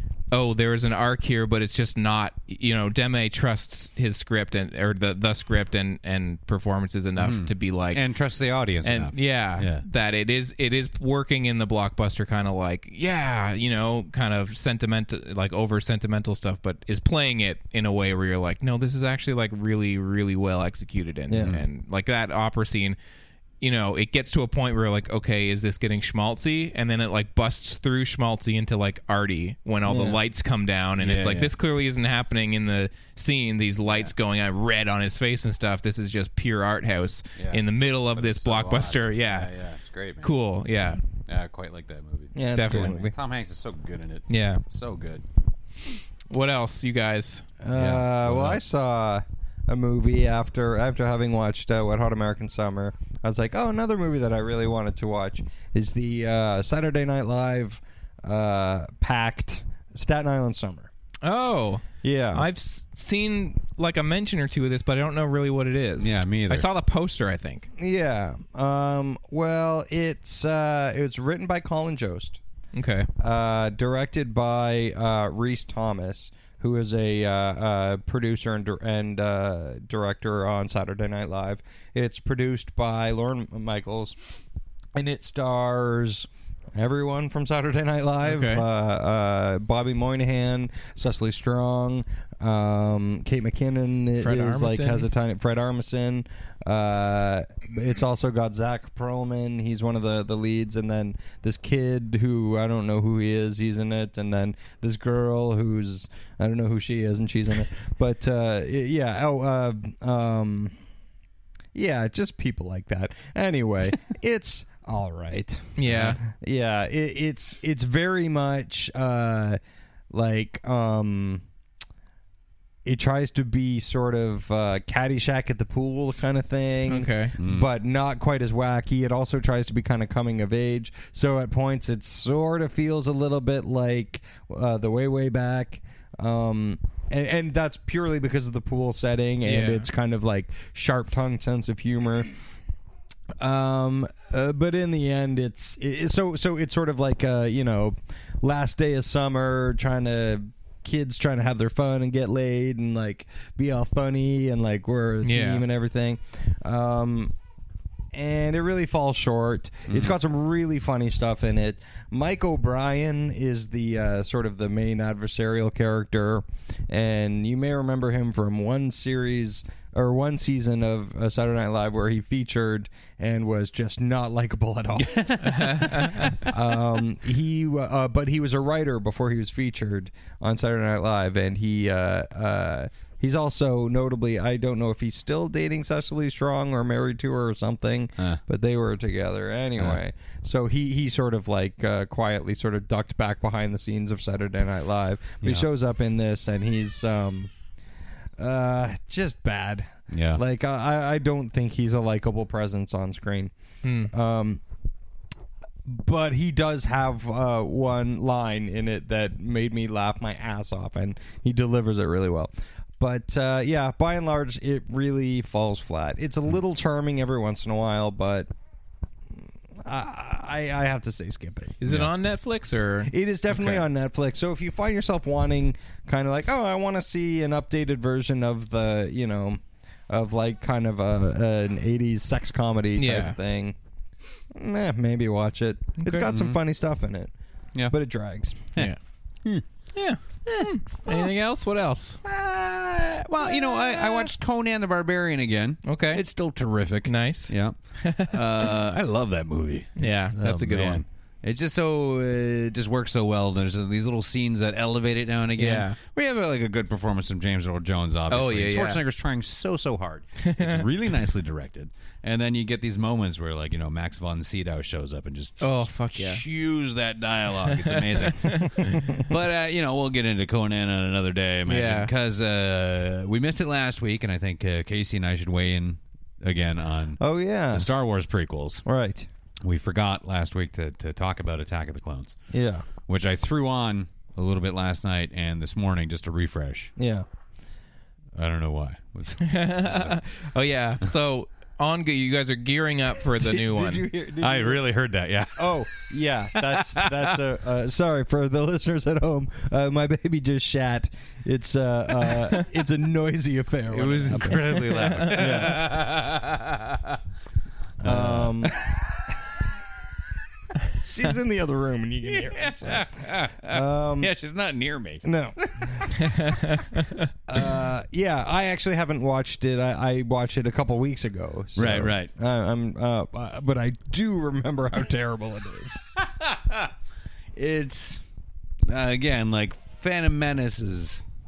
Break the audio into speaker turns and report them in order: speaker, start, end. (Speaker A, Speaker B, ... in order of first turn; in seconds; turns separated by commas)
Speaker A: 0.3-8.0, Speaker B: 7.2-9.8, Speaker A: 8.8-23.0, Speaker C: 21.3-21.6, Speaker A: 23.6-39.5, Speaker C: 29.9-30.2, Speaker B: 31.0-31.5, Speaker B: 37.4-40.3, Speaker A: 40.2-41.0, Speaker B: 41.3-45.2, Speaker C: 42.4-43.1, Speaker A: 42.5-42.9, Speaker A: 44.3-44.6, Speaker A: 46.3-47.5, Speaker C: 47.6-60.9, Speaker B: 47.7-48.6, Speaker A: 61.2-67.7, Speaker C: 62.0-62.5, Speaker B: 66.0-66.7, Speaker C: 67.8-72.4, Speaker A: 72.7-73.1, Speaker C: 73.2-84.2, Speaker C: 85.0-110.7, Speaker A: 88.2-88.7, Speaker A: 94.2-95.1, Speaker C: 111.7-119.6, Speaker A: 115.8-116.2, Speaker C: 120.1-121.4, Speaker C: 122.8-142.3, Speaker A: 126.9-127.3, Speaker B: 127.4-127.7, Speaker A: 139.4-139.9, Speaker C: 143.4-157.3, Speaker A: 155.2-155.7, Speaker C: 158.1-197.5, Speaker B: 159.9-160.2, Speaker B: 175.0-176.3, Speaker A: 175.4-176.4, Speaker C: 198.4-203.5, Speaker B: 200.1-200.4, Speaker A: 203.8-204.1, Speaker C: 204.1-204.6, Speaker C: 205.9-218.5, Speaker C: 219.8-221.8, Speaker A: 221.8-223.8, Speaker C: 223.1-233.8, Speaker A: 233.0-233.4, Speaker C: 234.5-237.3, Speaker A: 236.0-236.3, Speaker B: 236.3-236.6, Speaker C: 237.9-238.7, Speaker A: 239.9-242.2, Speaker B: 240.5-241.1, Speaker B: 242.2-278.8, Speaker A: 245.8-246.2, Speaker A: 247.1-248.4, Speaker A: 250.0-251.0, Speaker A: 255.6-256.0, Speaker A: 258.3-259.0, Speaker A: 260.4-260.8, Speaker A: 265.6-266.4, Speaker A: 267.8-269.1, Speaker A: 271.7-272.1, Speaker C: 277.2-277.9, Speaker C: 278.9-279.3, Speaker B: 279.6-282.4, Speaker C: 282.5-282.9, Speaker B: 283.1-286.9, Speaker C: 287.0-287.3, Speaker B: 288.4-290.2, Speaker A: 289.4-294.1, Speaker C: 293.4-294.9, Speaker B: 294.4-295.9, Speaker C: 295.6-305.9, Speaker B: 296.6-297.4, Speaker B: 303.9-307.2, Speaker A: 305.0-305.3, Speaker C: 308.0-308.8, Speaker B: 308.0-309.1, Speaker C: 311.0-313.1, Speaker B: 312.3-316.1, Speaker C: 313.6-314.3, Speaker C: 315.2-316.0, Speaker A: 316.2-317.3, Speaker C: 317.5-326.0, Speaker B: 321.8-322.3, Speaker B: 326.2-326.9, Speaker B: 327.6-328.2, Speaker B: 328.9-331.2